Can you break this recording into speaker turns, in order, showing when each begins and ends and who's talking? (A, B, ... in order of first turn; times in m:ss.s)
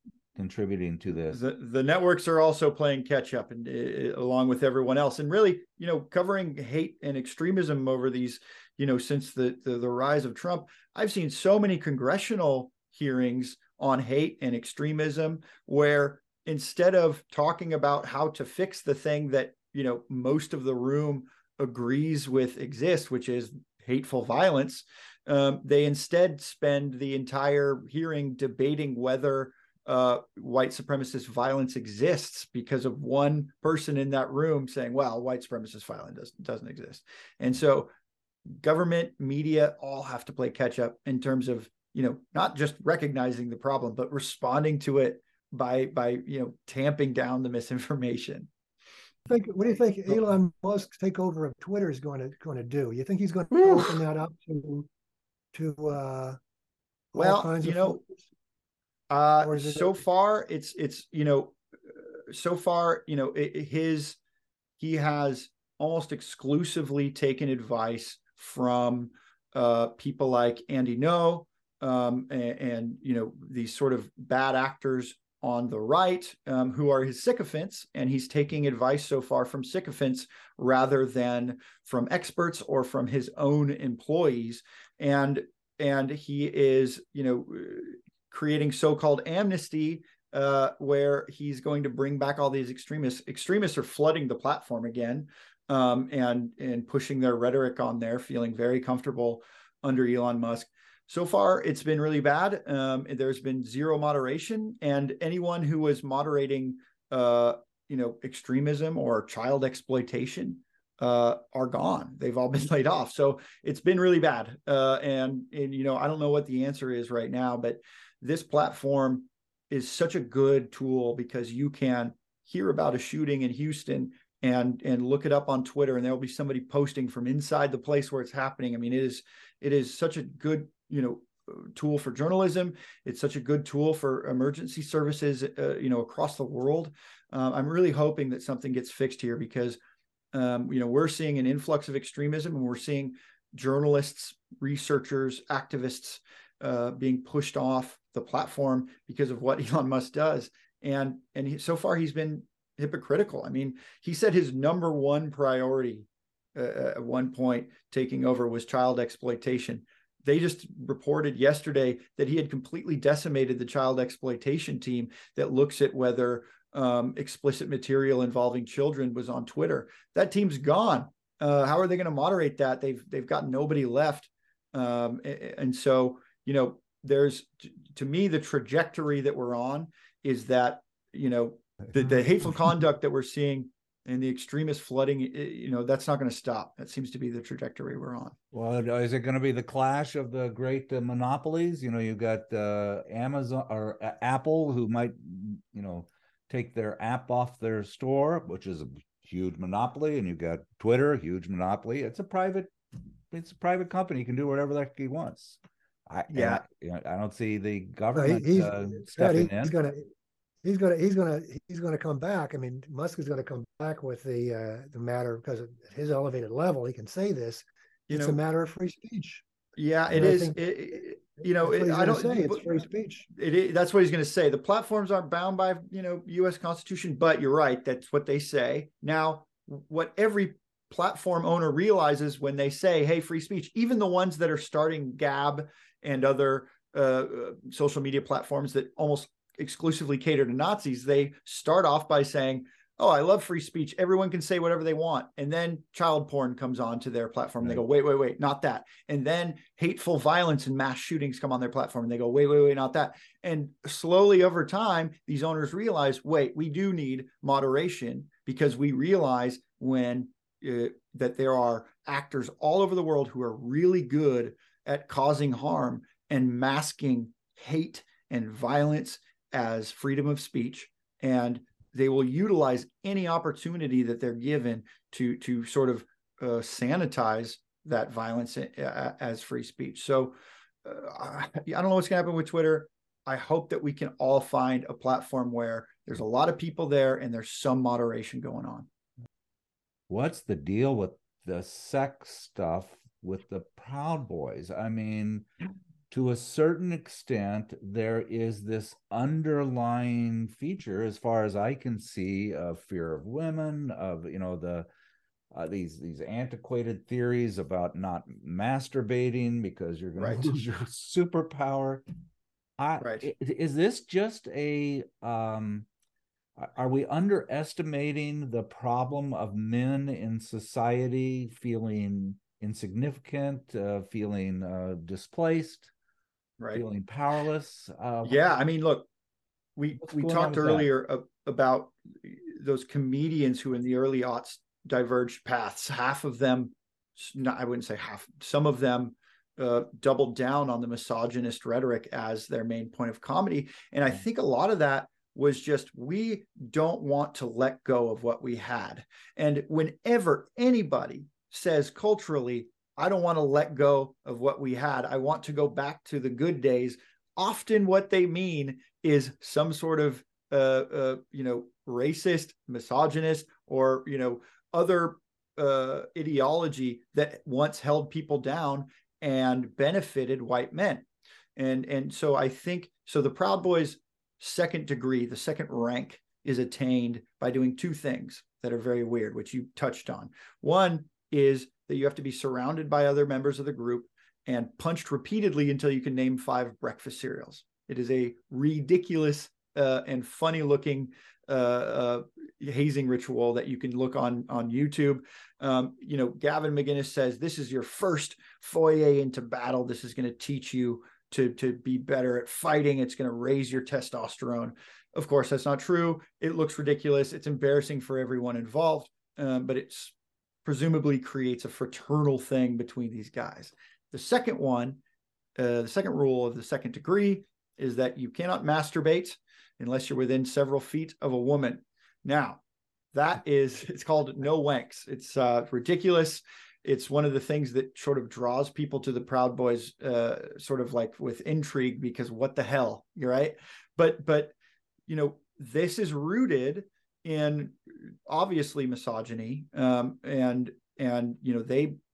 0:00.3-0:01.4 A
0:01.3-0:37.9 B
0:38.5-0:48.5 B
0:49.3-0:54.9 C
0:53.6-0:54.0 B
0:55.5-0:56.4 C
0:57.1-0:58.0 C
0:57.2-0:58.0 B
0:59.1-1:04.2 B
0:59.4-1:00.0 C
1:04.8-2:19.8 B
2:20.3-3:08.3 B
3:08.5-3:22.7 A
3:23.3-3:29.7 A
3:26.3-3:26.6 B
3:28.1-3:30.1 C
3:30.6-3:39.4 C
3:38.1-3:38.4 B
3:39.8-3:42.7 B
3:40.1-3:40.6 C
3:41.5-3:43.3 C
3:43.3-4:48.9 B
4:50.1-4:55.5 A
4:56.1-5:04.9 A
5:05.5-5:12.0 A
5:10.2-5:10.4 B
5:12.8-5:15.8 A
5:13.0-5:13.3 B
5:16.6-5:25.9 A
5:26.6-5:26.8 B
5:26.7-5:28.4 A
5:28.2-5:29.1 B
5:29.8-6:11.0 B
5:30.0-5:30.9 A
6:11.6-6:50.1 B
6:50.6-6:55.0 B
6:55.6-7:02.6 B
7:03.1-7:14.5 B
7:15.1-7:21.9 B